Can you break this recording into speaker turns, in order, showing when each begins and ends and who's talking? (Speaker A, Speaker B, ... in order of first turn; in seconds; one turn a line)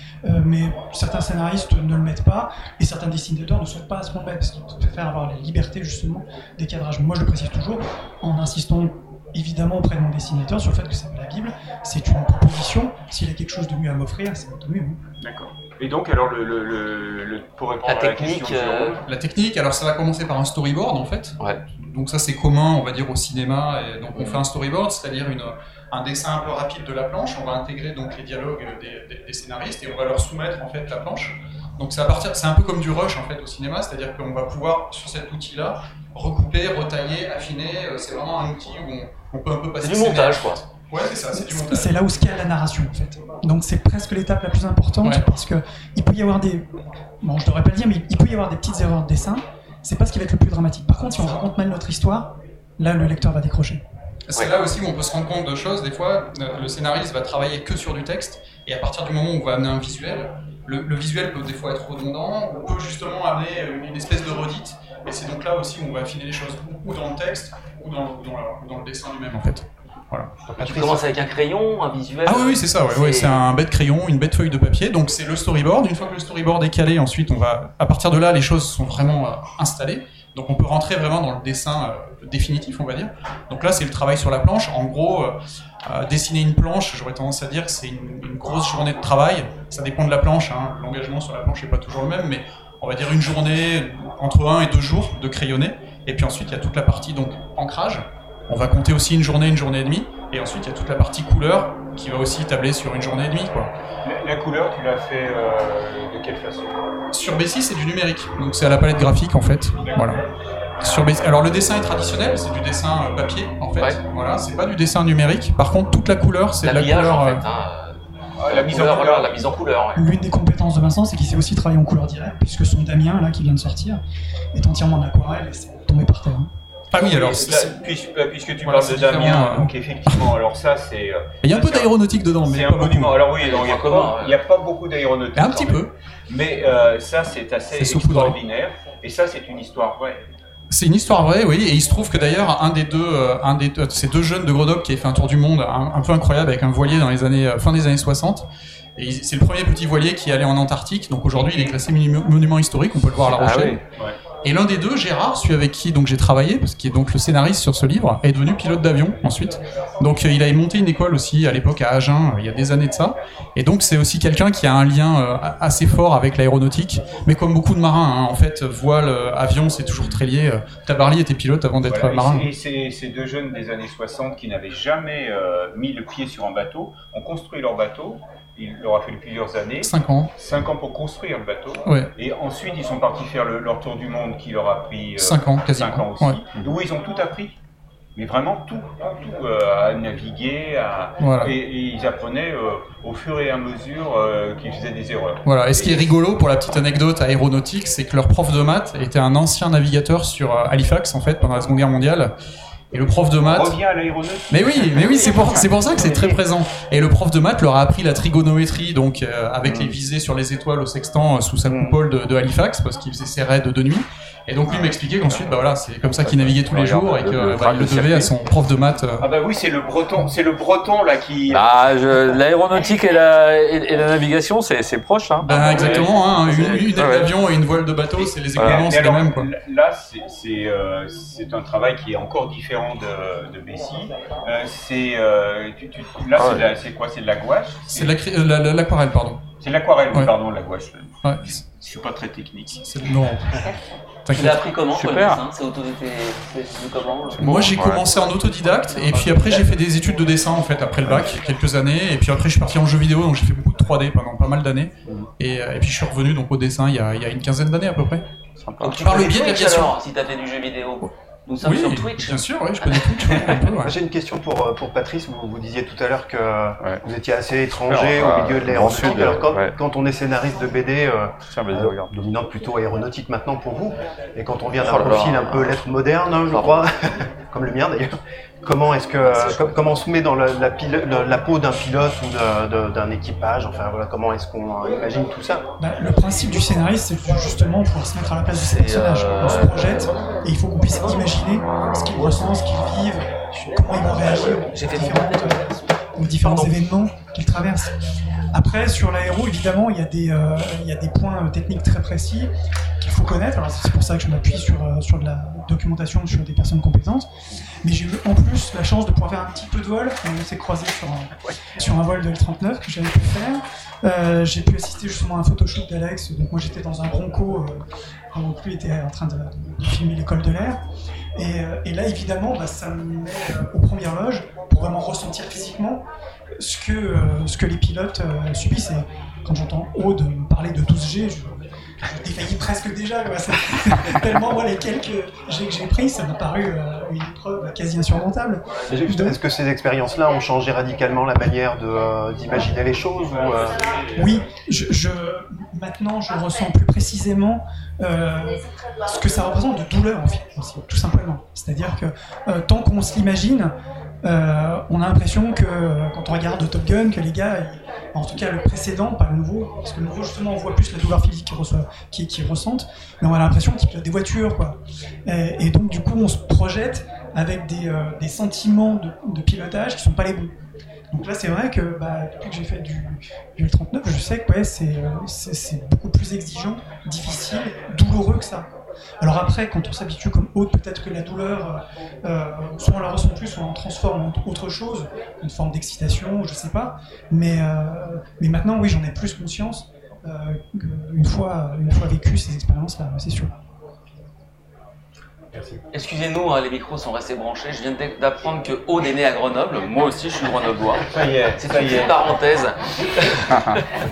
Speaker A: 0.2-15.0
Speaker B: 15.2-19.0
Speaker C: 17.8-19.0
Speaker D: 19.1-42.0
Speaker C: 24.1-24.4
Speaker C: 39.8-40.6
Speaker A: 41.4-53.8
Speaker D: 54.3-71.1
Speaker C: 70.6-73.5
Speaker D: 72.3-103.7
Speaker B: 104.0-106.8
Speaker D: 107.1-110.2
Speaker B: 109.9-110.1
Speaker D: 110.8-117.4
Speaker C: 116.6-120.1
Speaker B: 118.4-119.3
Speaker A: 120.0-124.0
Speaker A: 124.5-126.5
Speaker D: 126.9-127.8
Speaker B: 126.9-140.2
Speaker D: 128.6-130.3
Speaker D: 131.4-133.3
Speaker C: 133.4-134.4
Speaker D: 135.4-135.9
Speaker D: 137.8-138.4
Speaker D: 140.7-148.4
Speaker D: 149.0-153.8
Speaker E: 153.4-153.8
Speaker B: 153.4-154.2
Speaker D: 154.4-172.5
Speaker B: 171.9-187.6
Speaker D: 179.8-180.3
Speaker D: 185.2-186.4
Speaker B: 188.2-196.1
Speaker D: 191.2-191.5
Speaker D: 195.5-202.3
Speaker D: 202.9-203.8
Speaker B: 203.4-206.3
Speaker D: 204.5-219.3
Speaker E: 211.7-212.0
Speaker E: 216.2-218.3
Speaker B: 219.2-221.7
Speaker E: 221.5-226.2
Speaker D: 225.4-229.5
Speaker B: 225.5-227.1
Speaker E: 226.7-227.3
Speaker B: 228.2-238.2
Speaker E: 228.6-228.8
Speaker E: 236.4-236.7
Speaker D: 237.9-239.4
Speaker B: 239.6-242.8
Speaker D: 241.2-241.6
Speaker D: 242.9-243.7
Speaker D: 244.3-244.7
Speaker C: 244.3-247.7
Speaker E: 244.4-245.4
Speaker D: 247.3-258.3
Speaker E: 247.4-248.2
Speaker E: 258.6-259.0
Speaker C: 258.8-263.1
Speaker D: 259.0-259.9
Speaker D: 261.6-263.9
Speaker F: 263.7-285.7
Speaker E: 267.9-269.8
Speaker E: 271.5-272.1
Speaker C: 274.8-275.7
Speaker E: 274.9-275.5
Speaker C: 279.2-279.7
Speaker A: 285.8-297.9
Speaker C: 288.5-290.2
Speaker C: 293.8-295.7
Speaker A: 298.5-307.3
Speaker A: 307.8-320.8
Speaker A: 321.4-326.1
Speaker A: 326.6-339.4
Speaker F: 338.9-344.1
Speaker A: 344.2-370.6
Speaker A: 371.1-378.7
Speaker A: 379.2-393.5
Speaker F: 395.6-395.8
Speaker C: 395.9-403.8
Speaker B: 401.1-402.3